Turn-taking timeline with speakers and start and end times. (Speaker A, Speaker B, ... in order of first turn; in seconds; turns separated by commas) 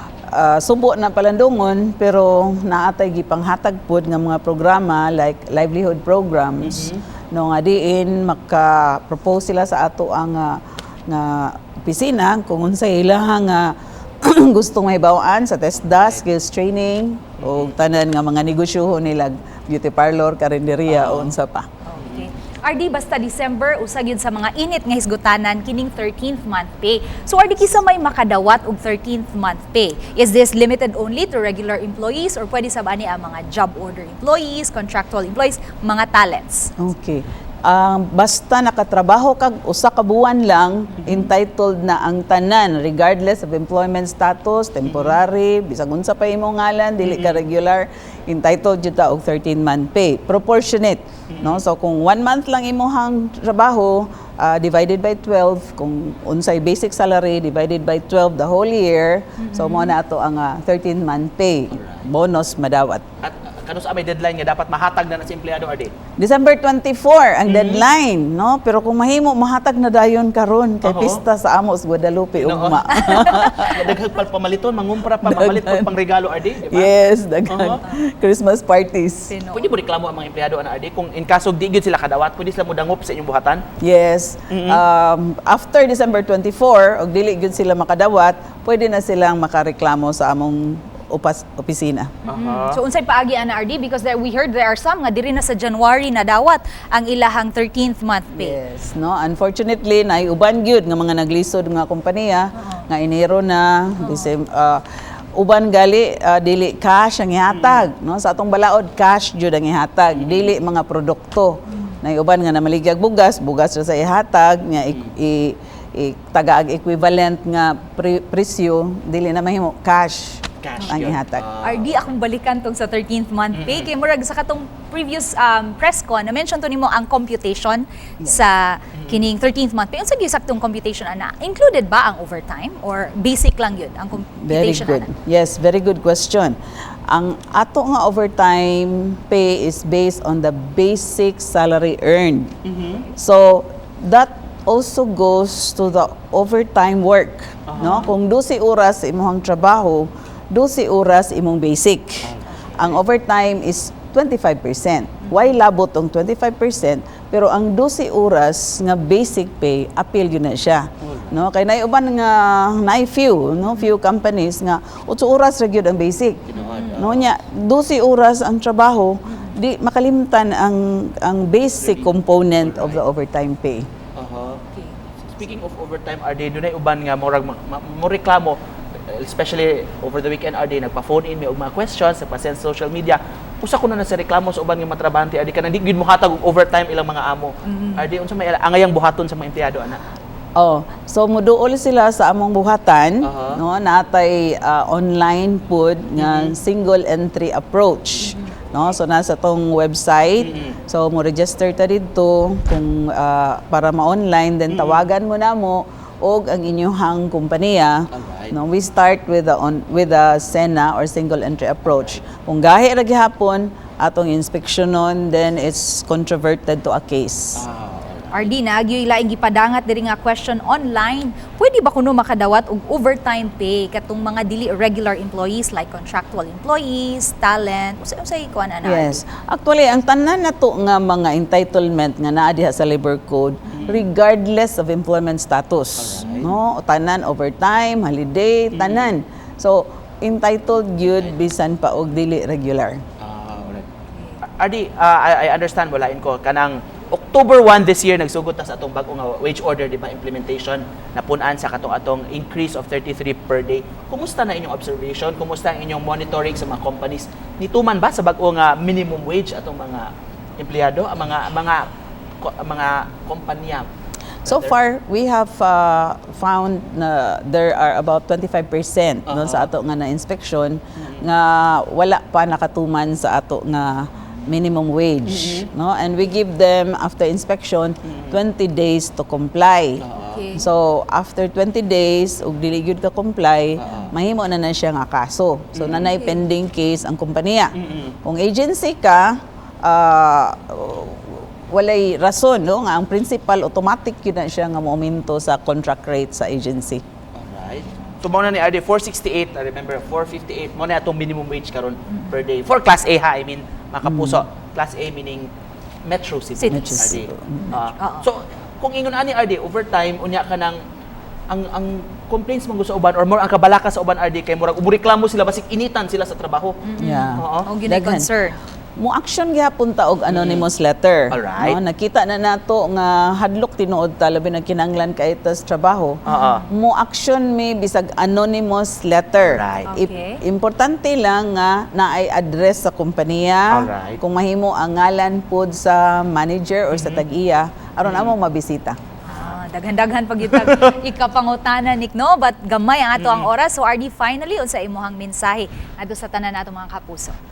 Speaker A: 0.3-21.7, Speaker B: 6.6-7.0, Speaker B: 15.8-16.2, Speaker B: 17.4-17.8, Speaker B: 20.9-21.3, Speaker C: 21.9-36.7, Speaker B: 22.0-22.3, Speaker A: 36.8-63.0, Speaker B: 41.0-41.3, Speaker B: 44.8-45.2, Speaker B: 47.0-47.4, Speaker B: 51.3-51.6, Speaker C: 59.4-59.9, Speaker B: 61.7-62.1, Speaker B: 63.2-65.9, Speaker A: 66.2-74.0, Speaker B: 67.5-67.8, Speaker B: 70.8-71.2, Speaker B: 72.4-76.9, Speaker A: 75.2-75.9, Speaker A: 76.7-79.3, Speaker B: 77.5-77.8, Speaker C: 79.3-79.7, Speaker B: 79.5-83.6, Speaker A: 83.8-92.1, Speaker B: 84.5-84.8, Speaker C: 92.2-98.6, Speaker B: 92.3-92.8, Speaker A: 98.3-121.5, Speaker C: 104.0-104.3, Speaker B: 107.5-107.8, Speaker B: 110.1-110.5, Speaker C: 111.7-112.0, Speaker B: 120.6-122.0, Speaker C: 121.6-135.1, Speaker B: 123.5-123.9, Speaker B: 128.9-129.2, Speaker A: 134.4-136.6, Speaker A: 137.1-142.6, Speaker B: 142.6-143.1, Speaker A: 143.1-173.9, Speaker B: 147.7-148.0, Speaker C: 147.8-148.1, Speaker B: 152.2-153.0, Speaker C: 155.2-155.5, Speaker B: 161.0-161.3, Speaker B: 166.5-167.3, Speaker C: 166.6-167.0, Speaker B: 171.8-173.0, Speaker B: 174.2-174.6, Speaker B: 175.2-190.0, Speaker C: 187.7-188.0, Speaker A: 190.6-217.6, Speaker B: 193.2-193.6, Speaker B: 196.2-196.6, Speaker B: 200.4-200.8, Speaker B: 204.7-205.1, Speaker B: 208.1-208.6, Speaker B: 217.6-218.5, Speaker C: 218.3-229.2, Speaker A: 228.8-243.0, Speaker B: 233.7-234.0, Speaker B: 235.9-236.6, Speaker B: 238.7-239.1, Speaker B: 243.2-243.9, Speaker B: 244.4-261.9, Speaker B: 262.4-263.9, Speaker A: 264.4-280.0, Speaker B: 264.4-264.8, Speaker B: 269.2-269.7, Speaker B: 271.0-271.3, Speaker B: 275.3-275.7, Speaker B: 278.0-278.4, Speaker B: 280.0-280.6, Speaker C: 280.2-280.7, Speaker A: 280.5-297.0, Speaker B: 283.8-284.1, Speaker B: 285.7-286.1, Speaker C: 286.0-286.4, Speaker B: 287.7-288.1, Speaker B: 297.3-305.5, Speaker C: 302.1-302.4, Speaker A: 304.0-304.4, Speaker B: 306.0-310.8, Speaker C: 306.6-307.1, Speaker A: 306.7-307.8, Speaker C: 308.0-308.2, Speaker B: 311.5-316.8, Speaker C: 316.8-318.6, Speaker A: 317.0-318.3, Speaker B: 317.4-317.7, Speaker A: 319.0-339.0, Speaker B: 320.3-320.7, Speaker B: 321.3-321.8, Speaker C: 326.2-326.7, Speaker B: 326.3-326.6, Speaker B: 329.4-329.9, Speaker C: 329.9-330.4, Speaker B: 333.7-334.2, Speaker B: 336.9-337.2, Speaker B: 338.0-338.3, Speaker C: 339.2-347.4, Speaker B: 340.5-340.9, Speaker B: 343.2-343.5